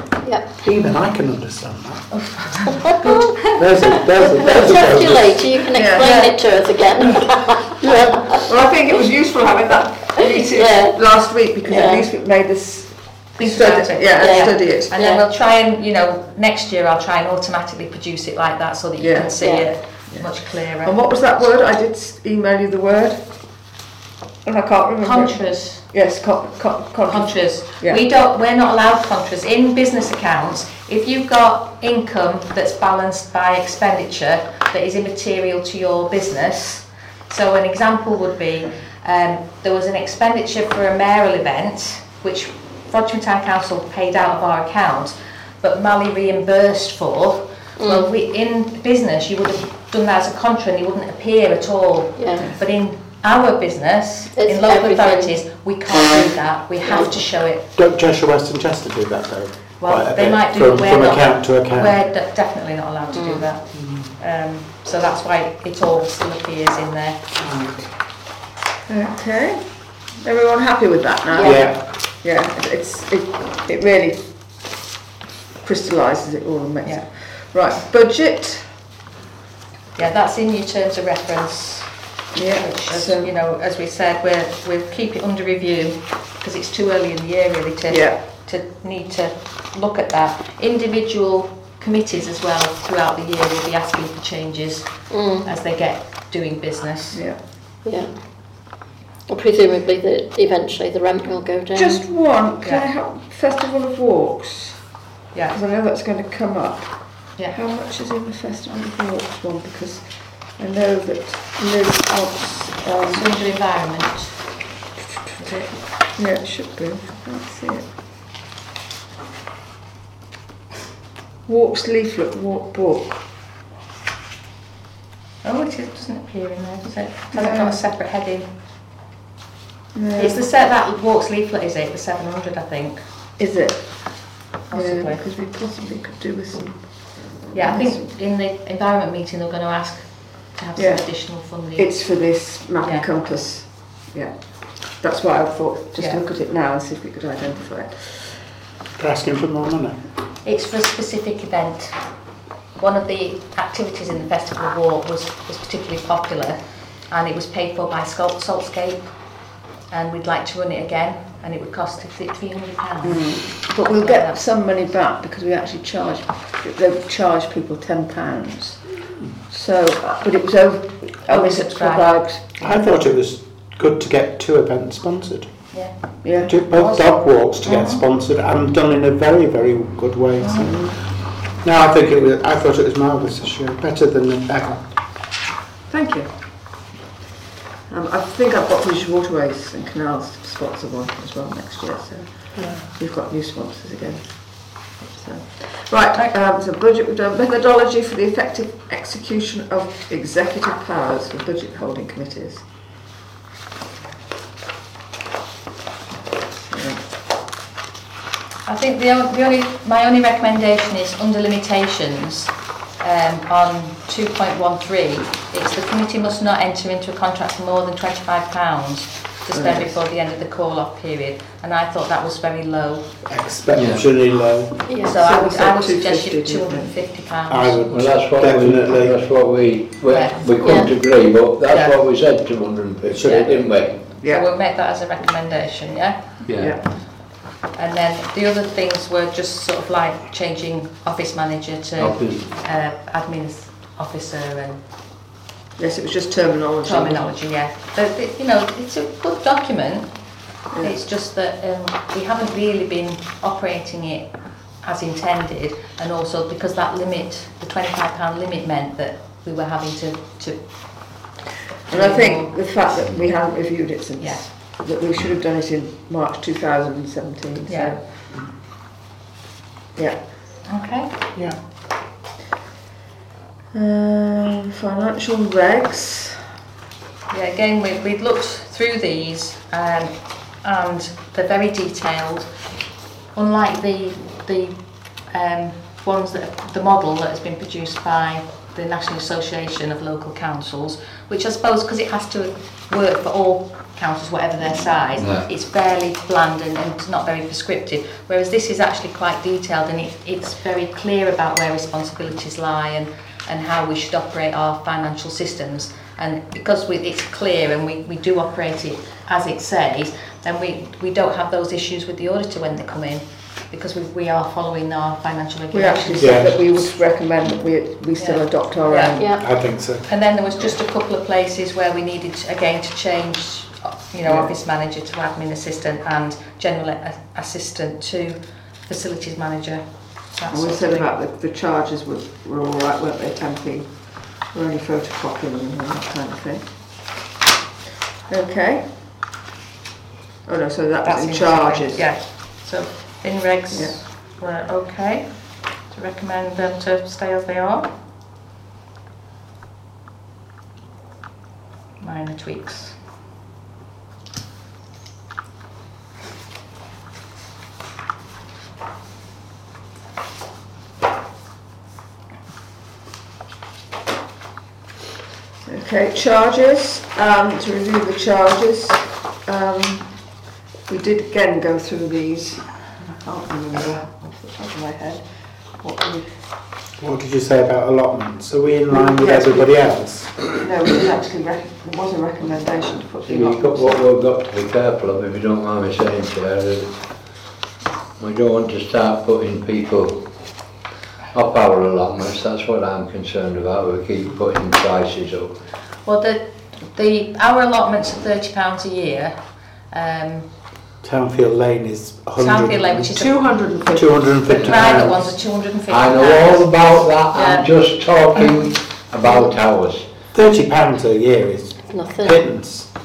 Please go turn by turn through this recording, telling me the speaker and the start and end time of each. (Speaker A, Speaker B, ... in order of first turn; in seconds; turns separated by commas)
Speaker A: 0.6-2.7, Speaker A: 3.4-5.4, Speaker B: 4.1-8.4, Speaker C: 5.7-6.3, Speaker D: 6.0-6.3, Speaker C: 8.4-15.1, Speaker B: 10.3-11.0, Speaker B: 11.7-12.1, Speaker D: 13.4-21.0, Speaker B: 14.2-15.2, Speaker C: 19.0-19.4, Speaker B: 19.4-19.7, Speaker C: 19.9-20.3, Speaker C: 20.8-23.2, Speaker C: 24.4-28.0, Speaker D: 25.0-25.8, Speaker D: 27.1-57.7, Speaker B: 47.8-48.1, Speaker B: 52.2-52.5, Speaker C: 52.4-52.6, Speaker B: 54.4-55.3, Speaker A: 57.8-62.0, Speaker D: 59.8-67.2, Speaker B: 63.1-63.5, Speaker A: 63.7-64.1, Speaker A: 67.4-67.9, Speaker C: 68.9-69.6, Speaker C: 70.2-74.2, Speaker B: 71.3-71.7, Speaker A: 71.4-71.8, Speaker C: 75.6-78.6, Speaker D: 80.0-94.9, Speaker C: 82.3-83.3, Speaker C: 87.9-88.2, Speaker B: 95.1-95.5, Speaker D: 95.4-97.2, Speaker B: 97.8-98.1, Speaker B: 99.3-102.0, Speaker C: 101.8-104.8, Speaker C: 105.5-106.9, Speaker C: 107.5-110.1, Speaker C: 110.6-113.3, Speaker D: 113.1-114.3, Speaker D: 115.4-115.8, Speaker C: 116.2-117.8, Speaker C: 121.5-123.2, Speaker D: 125.4-128.5, Speaker C: 127.3-127.8, Speaker C: 129.9-130.4, Speaker D: 130.2-133.0, Speaker C: 133.4-133.8, Speaker D: 134.7-135.2, Speaker C: 134.7-136.8, Speaker C: 137.4-138.1, Speaker D: 137.5-141.9, Speaker C: 140.8-141.1, Speaker C: 141.7-144.3, Speaker C: 145.0-148.4, Speaker D: 146.0-146.2, Speaker A: 149.0-150.0, Speaker D: 150.4-152.0, Speaker D: 152.8-156.6, Speaker D: 157.1-159.1, Speaker D: 159.9-164.4, Speaker C: 163.0-168.9, Speaker C: 169.5-172.7, Speaker D: 171.3-172.1, Speaker A: 172.6-175.6, Speaker D: 175.7-178.0, Speaker C: 176.2-176.6, Speaker A: 176.5-180.8, Speaker D: 180.4-180.7, Speaker C: 180.6-181.0, Speaker A: 181.6-184.8, Speaker C: 185.9-186.3, Speaker C: 187.9-202.6, Speaker C: 206.5-207.0, Speaker D: 208.7-223.1, Speaker C: 219.5-219.9, Speaker A: 223.2-224.8, Speaker E: 223.7-224.0, Speaker B: 224.9-225.2, Speaker D: 225.0-227.8, Speaker C: 225.1-226.9, Speaker A: 227.5-229.2, Speaker E: 227.9-234.0, Speaker D: 230.1-231.0, Speaker B: 230.6-230.9, Speaker D: 231.7-232.0, Speaker A: 233.1-233.6, Speaker D: 233.2-233.6, Speaker C: 234.2-234.5, Speaker D: 234.3-236.3, Speaker E: 236.5-236.8, Speaker C: 236.6-236.8, Speaker D: 237.7-244.8, Speaker E: 242.0-242.5, Speaker C: 245.8-247.3, Speaker D: 246.8-250.1, Speaker D: 250.8-260.6, Speaker C: 261.9-268.0, Speaker D: 261.9-262.8, Speaker D: 264.2-264.5, Speaker D: 267.7-268.0, Speaker D: 270.7-271.1, Speaker C: 273.7-276.4, Speaker D: 277.3-282.5, Speaker D: 283.3-284.8, Speaker D: 285.3-316.5, Speaker E: 295.2-295.5, Speaker C: 315.7-319.3, Speaker A: 316.2-316.7, Speaker D: 318.2-319.2, Speaker B: 319.2-319.4, Speaker A: 319.4-320.1, Speaker D: 320.1-331.1, Speaker C: 324.2-324.6, Speaker C: 330.5-333.9, Speaker C: 334.5-336.6, Speaker C: 338.3-338.9, Speaker C: 340.5-342.1, Speaker D: 341.1-345.3, Speaker C: 343.7-344.0, Speaker D: 345.9-347.9, Speaker D: 352.0-352.9, Speaker C: 365.6-370.1, Speaker C: 370.9-375.2, Speaker C: 375.8-376.3, Speaker A: 377.0-380.4, Speaker C: 378.9-379.8, Speaker C: 380.5-384.0, Speaker E: 383.3-386.9, Speaker E: 388.2-390.2, Speaker E: 391.3-395.6, Speaker D: 396.1-399.4, Speaker D: 399.9-400.5, Speaker A: 401.0-403.2, Speaker D: 402.4-403.4, Speaker C: 403.1-404.4, Speaker A: 403.9-405.3, Speaker D: 404.5-407.7, Speaker E: 405.9-410.1, Speaker A: 410.3-412.9, Speaker B: 411.9-412.4